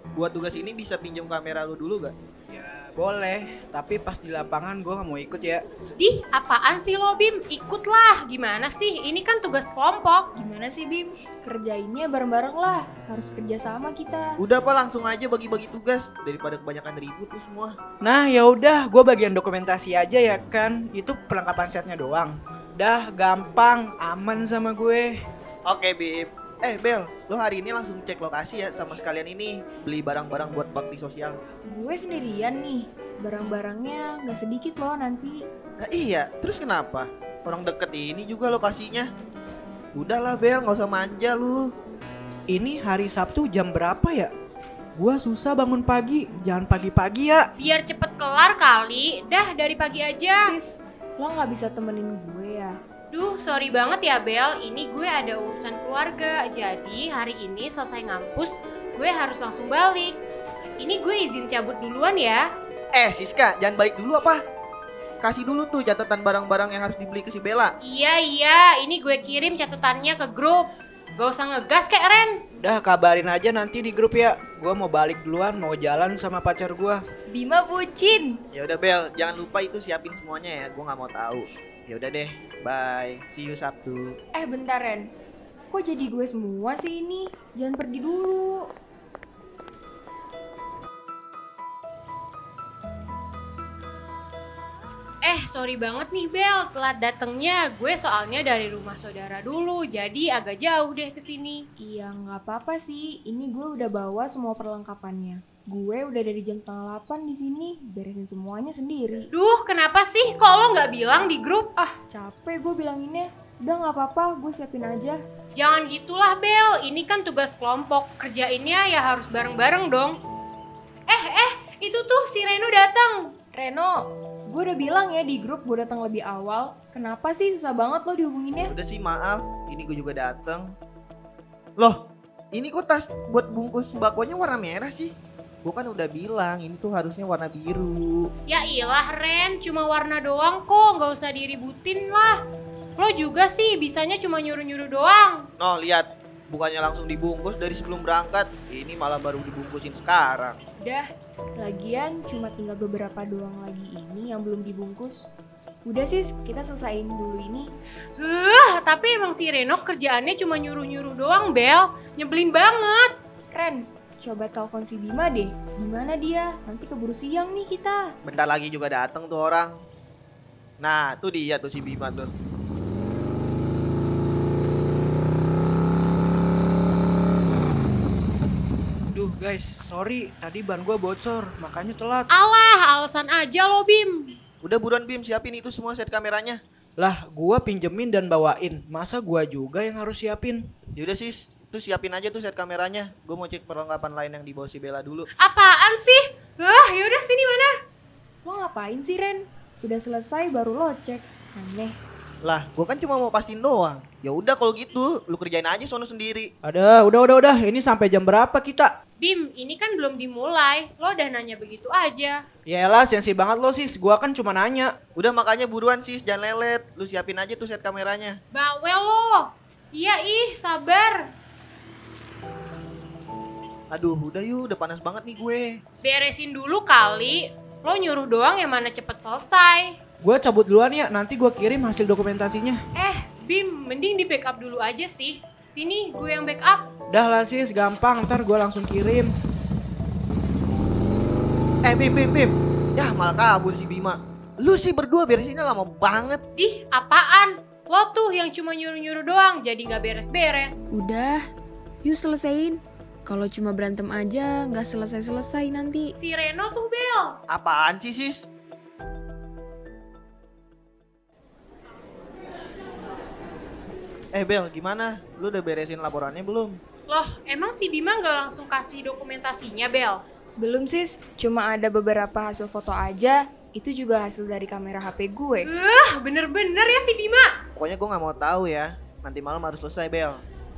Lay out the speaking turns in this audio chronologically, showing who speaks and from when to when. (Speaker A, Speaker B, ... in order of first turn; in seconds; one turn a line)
Speaker A: 0.1-2.1
Speaker B: 2.5-5.6
Speaker C: 6.0-10.3
Speaker D: 10.3-14.3
Speaker A: 14.4-17.8
Speaker B: 18.0-25.1
Speaker A: 25.7-31.4
Speaker D: 31.7-35.4
Speaker A: 35.8-39.1
Speaker A: 40.0-41.7
Speaker B: 42.5-44.3
Speaker B: 45.0-47.5
Speaker C: 47.6-50.4
Speaker D: 50.4-52.8
Speaker C: 53.1-60.2
Speaker C: 60.8-62.4
Speaker A: 63.0-64.4
Speaker A: 65.2-67.8
Speaker C: 67.8-72.4
Speaker B: 72.6-77.0
Speaker D: 77.3-78.4
Speaker A: 78.5-84.2
Speaker D: 84.4-85.1
Speaker D: 85.7-88.7
Speaker C: 95.2-101.6
Speaker D: 101.8-109.3
Speaker C: 109.3-111.7
Speaker D: 111.8-115.2
Speaker C: 115.6-120.2
Speaker C: 121.1-123.3
Speaker D: 123.5-128.7
Speaker A: 128.6-130.7
Speaker A: 132.5-135.1
Speaker A: 135.6-138.3
Speaker C: 138.5-142.4
Speaker C: 143.0-145.5
Speaker A: 145.6-150.6
Speaker D: 151.6-155.3
Speaker D: 155.9-157.7
Speaker C: 158.2-163.1
Speaker D: 163.5-168.1
Speaker A: 168.2-169.8
Speaker A: 170.8-172.3
Speaker B: 179.1-182.3
Speaker C: 182.3-184.3
Speaker A: 184.6-186.6
Speaker B: 187.0-190.6
Speaker A: 191.0-195.3
Speaker C: 195.4-197.7
Speaker D: 198.4-202.0
Speaker A: 202.4-206.5
Speaker B: 206.6-208.9
Speaker C: 209.2-212.4
Speaker B: 212.7-214.9
Speaker A: 215.2-218.4
Speaker C: 218.5-221.2
Speaker A: 223.9-225.8
Speaker C: 226.0-229.9
Speaker B: 230.2-232.8
Speaker C: 233.0-236.9
Speaker B: 237.1-239.3
Speaker A: 241.8-246.4
Speaker C: 246.6-250.8
Speaker E: 250.9-251.5
Speaker E: 252.0-256.1
Speaker C: 256.2-257.4
Speaker A: 257.5-258.5
Speaker A: 264.3-266.8
Speaker C: 267.1-270.2
Speaker D: 270.6-275.7
Speaker C: 275.6-277.5
Speaker A: 277.8-280.4